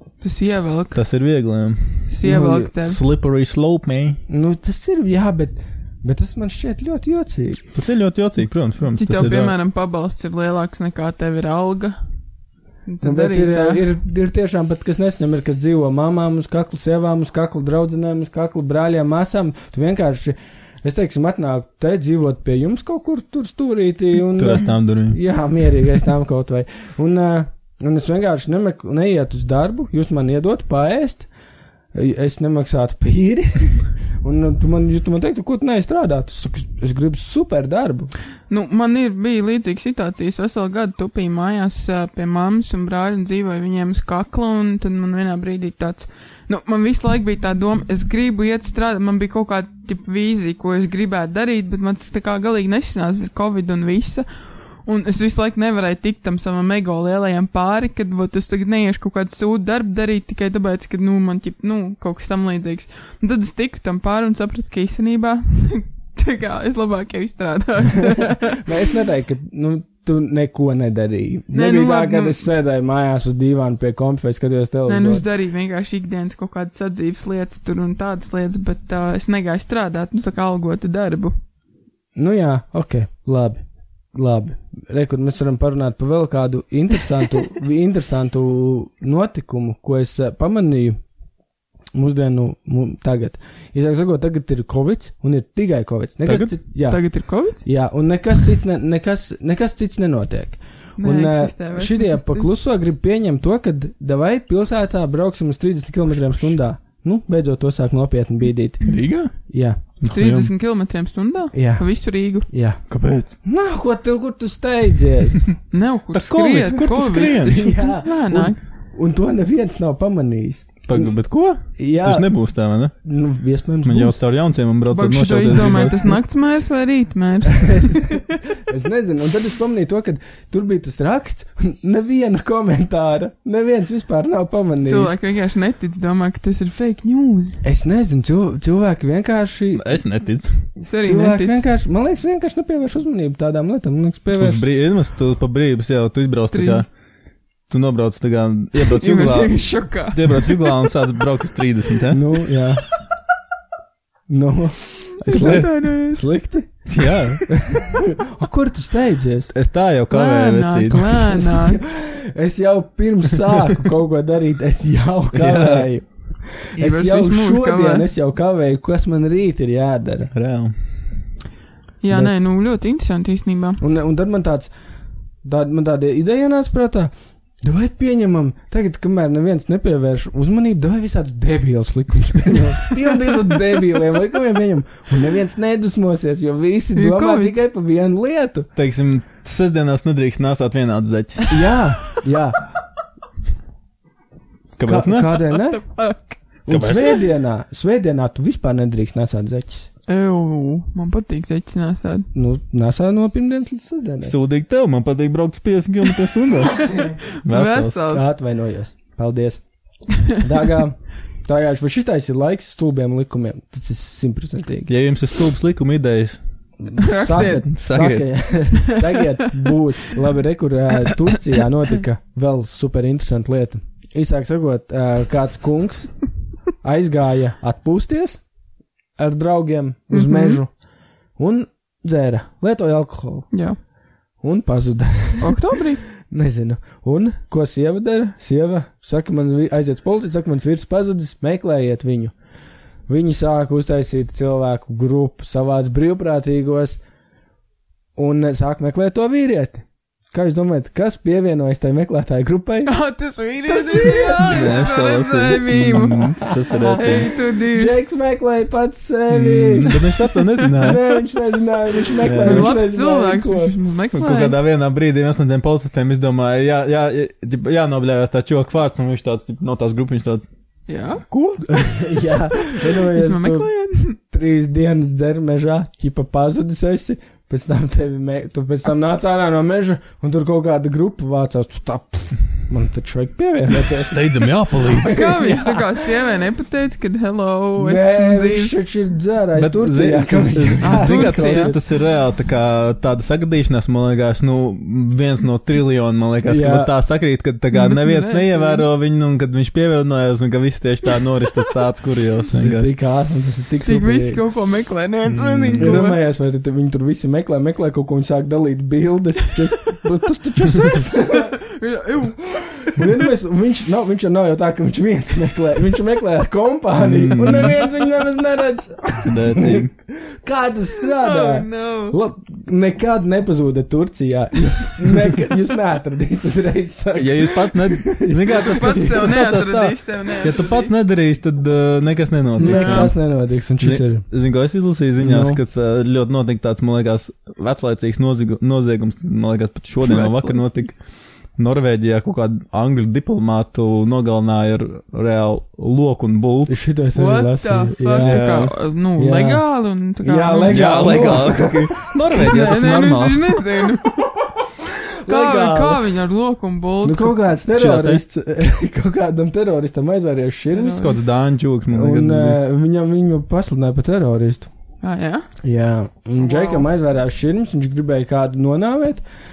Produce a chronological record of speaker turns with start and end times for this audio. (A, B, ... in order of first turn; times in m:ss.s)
0:00.2-0:01.0 A
0:00.9-0:02.1 B
0:02.1-0:03.0 A
0:02.2-0:02.7 C
0:02.9-0:04.2 B
0:04.3-0:07.6 C
0:07.7-0:09.5 B
0:09.0-0:12.0 A
0:12.9-0:13.8 A
0:13.0-0:31.3 C
0:24.4-0:25.2 B
0:31.9-0:38.1 C
0:38.5-1:08.7 A
1:08.6-1:15.2 C
1:11.5-1:12.4 A
1:14.9-1:21.3 A
1:22.2-1:23.6 C
1:24.1-1:31.0 C
1:31.9-1:49.8 C
1:36.2-1:36.5 B
1:36.9-1:37.6 A
1:41.0-1:42.5 A
1:48.9-1:49.4 B
1:50.0-1:50.5 B
1:50.0-1:52.5 A
1:51.5-1:55.5 C
1:52.9-1:53.4 B
1:55.7-1:58.6 A
1:56.1-1:57.6 B
1:57.5-2:04.2 C
2:00.9-2:02.9 B
2:03.8-2:06.2 B
2:04.9-2:08.2 A
2:07.6-2:15.2 C
2:14.8-2:17.6 A
2:17.6-2:19.9 C
2:19.7-2:20.7 B
2:20.8-2:21.6 A
2:21.0-2:24.7 C
2:24.3-2:26.9 B
2:26.5-2:26.8 A
2:27.7-2:32.2 B
2:28.8-2:30.5 A
2:32.1-2:32.9 C
2:34.3-2:36.9 C
2:35.2-2:36.3 A
2:35.2-2:35.8 B
2:36.9-2:37.4 B
2:37.6-2:39.5 C
2:39.5-2:41.3 B
2:40.1-2:41.8 A
2:40.9-2:50.3 C
2:45.3-2:45.9 B
2:46.8-2:48.1 A
2:50.3-2:51.2 B
2:52.0-2:53.8 A
2:53.8-2:54.7 C
2:55.4-2:57.1 C
2:57.6-3:08.7 C
3:06.9-3:07.6 A
3:08.8-3:11.5 B
3:11.5-3:12.7 C
3:14.8-3:15.3 B
3:14.9-3:19.9 C
3:15.5-3:16.4 A
3:16.7-3:17.1 B
3:20.1-3:22.3 A
3:22.3-3:24.3 C
3:24.2-3:28.0 B
3:26.9-3:28.2 A
3:28.1-3:34.9 C
3:34.9-3:36.4 B
3:36.8-3:48.4 C
3:37.0-3:37.8 A
3:37.4-3:38.3 B
3:49.2-3:50.8 C
3:50.1-3:50.6 A
3:51.4-3:53.5 C
3:53.5-3:53.8 A
3:54.4-4:02.4 C
3:55.4-3:56.0 A
4:03.1-4:07.0 C
4:08.2-4:12.9 C
4:12.8-4:18.0 A
4:13.6-4:14.9 C
4:14.4-4:17.3 B
4:16.7-4:20.0 C
4:19.3-4:21.0 B
4:20.7-4:23.7 C
4:22.2-4:22.8 B
4:22.4-4:24.6 A
4:24.1-4:30.4 B
4:30.9-4:31.2 A
4:31.3-4:31.7 B
4:31.9-4:46.1 C
4:33.0-4:34.2 A
4:43.9-4:45.2 B
4:45.0-4:48.8 A
4:47.8-4:51.8 C
4:49.6-5:02.9 B
4:50.8-4:51.7 A
4:56.4-4:56.9 C
4:57.7-4:58.9 A
5:02.5-5:04.4 C
5:03.8-5:06.2 A
5:05.2-5:06.0 B
5:05.8-5:11.6 C
5:11.7-5:13.1 A
5:12.9-5:29.4 C
5:17.0-5:17.8 B
5:19.2-5:19.9 B
5:21.1-5:22.2 A
5:27.1-5:33.2 B
5:28.6-5:30.9 A
5:32.6-5:34.3 C
5:32.6-5:33.1 A
5:33.8-5:46.8 B
5:35.2-5:35.6 C
5:40.0-5:40.9 A
5:46.7-5:52.0 C
5:47.1-5:51.5 A
5:48.2-5:48.7 B
5:50.7-5:53.4 B
5:52.3-5:54.3 A
5:55.2-5:56.0 C
5:55.3-5:57.4 A
5:57.0-6:01.1 C
5:57.7-5:58.2 B
6:00.7-6:01.1 A
6:01.0-6:02.6 B
6:01.9-6:04.7 C
6:05.0-6:05.5 A
6:05.6-6:09.2 C
6:06.4-6:06.9 A